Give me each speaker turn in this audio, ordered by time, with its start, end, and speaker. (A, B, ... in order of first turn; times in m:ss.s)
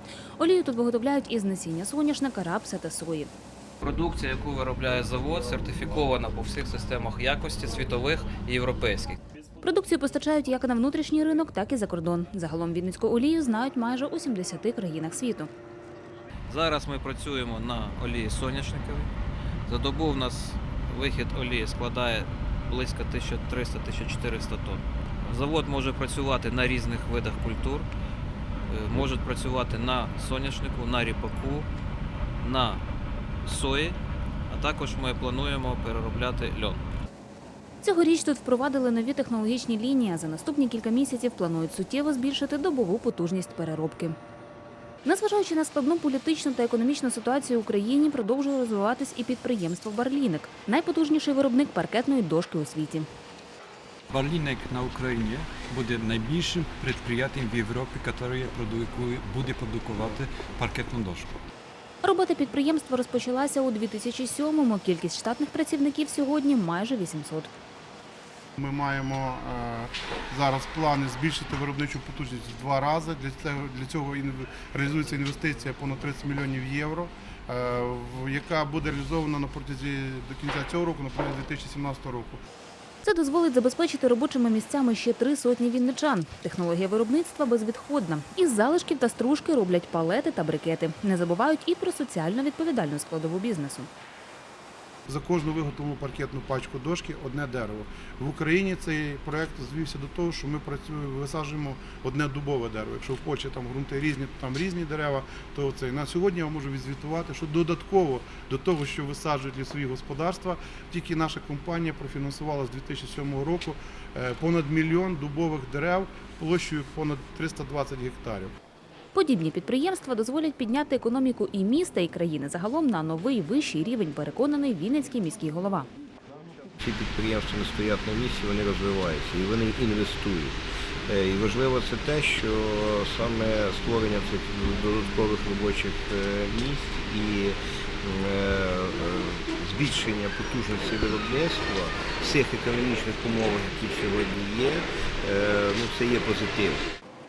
0:00.4-0:03.3 A
0:03.8-0:09.2 B
0:09.6-0:15.5 A
0:16.5-0:19.1 B
0:19.7-0:27.9 B
0:28.7-0:31.7 B
0:32.4-0:32.8 B
0:33.4-0:34.0 B
0:34.5-0:36.8 B
0:37.8-0:44.2 A
0:45.0-0:53.1 A
0:54.1-1:01.4 C
1:02.0-1:07.5 A
1:08.6-1:22.4 D
1:23.0-1:33.9 A
1:35.1-1:58.5 D
1:59.1-2:05.9 A
2:06.8-2:10.6 E
2:11.1-2:26.9 E